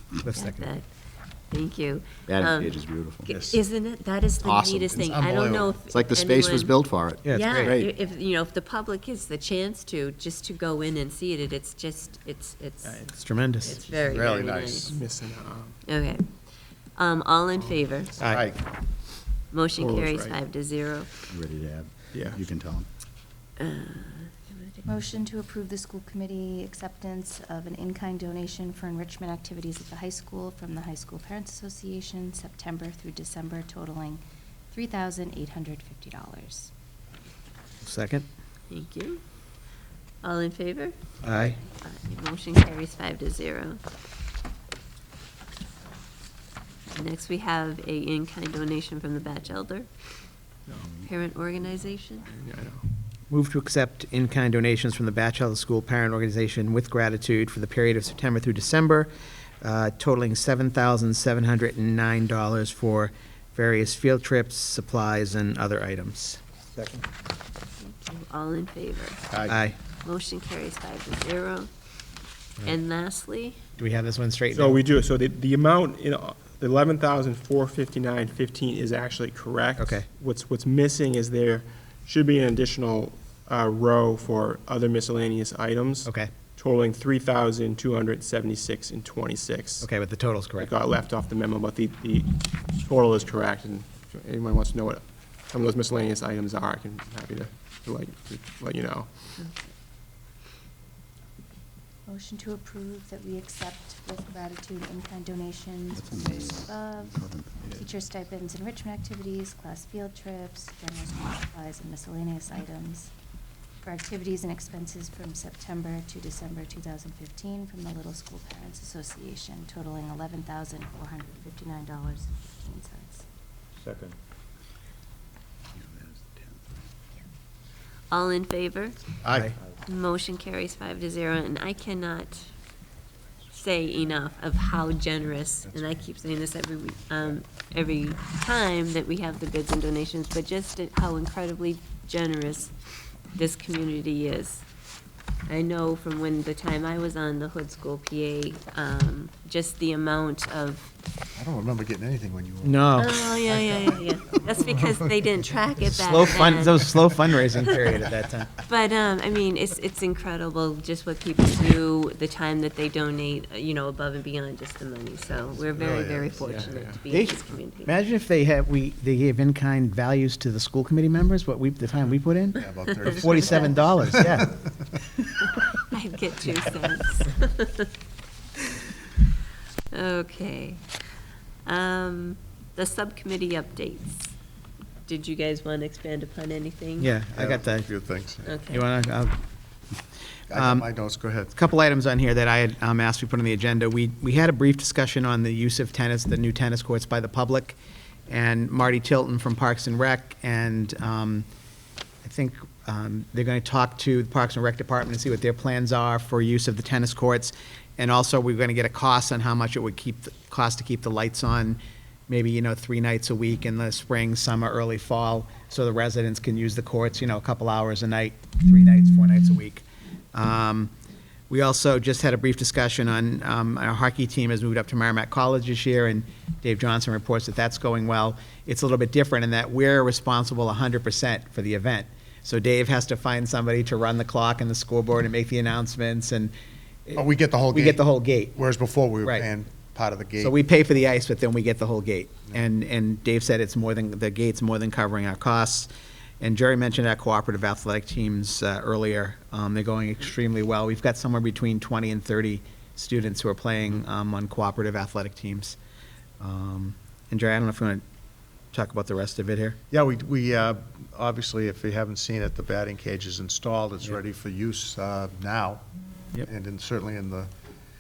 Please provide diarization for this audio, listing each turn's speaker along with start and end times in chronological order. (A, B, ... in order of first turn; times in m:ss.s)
0:00.2-0:00.7 A
0:00.3-0:00.9 B
0:01.5-0:15.0 B
0:02.3-0:03.4 C
0:04.4-0:05.1 C
0:05.1-0:05.8 D
0:05.9-0:07.9 C
0:07.2-0:07.8 A
0:12.8-0:13.2 E
0:13.2-0:13.8 A
0:14.0-0:15.0 D
0:14.9-0:15.8 E
0:15.8-0:18.2 B
0:18.2-0:18.4 A
0:18.2-0:18.6 D
0:19.5-0:21.1 B
0:19.8-0:20.4 E
0:21.3-0:22.9 C
0:22.1-0:22.5 E
0:23.6-0:24.9 B
0:24.9-0:36.7 F
0:37.8-0:38.2 A
0:38.7-0:39.2 B
0:40.2-0:41.0 B
0:41.2-0:41.6 A
0:41.8-0:43.8 B
0:46.9-0:49.9 B
0:50.7-0:50.9 E
0:51.0-0:52.3 B
0:52.3-0:52.8 E
0:53.3-0:59.1 A
0:59.6-1:06.4 A
1:06.8-1:07.0 E
1:07.8-1:09.2 B
1:09.5-1:09.8 A
1:10.0-1:11.7 B
1:12.6-1:13.6 B
1:13.8-1:14.8 A
1:14.5-1:29.9 E
1:19.8-1:20.1 A
1:26.0-1:26.3 A
1:29.8-1:30.7 A
1:30.6-1:39.1 E
1:42.1-1:53.1 F
1:46.2-1:46.7 C
1:47.2-1:47.9 C
1:53.8-2:03.2 F
2:08.1-2:09.2 B
2:09.2-2:09.5 D
2:09.9-2:12.6 B
2:13.5-2:22.8 B
2:23.3-2:24.6 B
2:25.5-2:30.9 B
2:31.4-2:35.1 D
2:32.6-2:33.1 A
2:33.0-2:37.7 B
2:35.9-2:38.5 A
2:38.7-2:47.9 B
2:45.7-2:46.7 D
2:46.4-2:47.0 E
2:47.1-2:54.6 A
2:52.6-2:54.6 D
2:53.4-2:53.7 B
2:55.9-2:57.9 B
2:59.9-3:01.1 B
3:01.6-3:04.2 B
3:05.1-3:07.1 B
3:07.0-3:07.9 A
3:07.4-3:08.5 D
3:08.5-3:08.8 B
3:08.7-3:09.4 A
3:10.5-3:11.5 D
3:10.5-3:10.9 A
3:11.5-3:17.8 A
3:18.3-3:21.5 A
3:22.2-3:40.9 A
3:41.5-3:56.5 A
3:57.1-3:58.6 A
3:57.2-4:00.6 D
4:00.4-4:05.9 A
4:06.4-4:15.8 A
4:16.4-4:18.0 A
4:18.7-4:19.8 A
4:19.9-4:25.8 D
4:26.4-4:27.5 D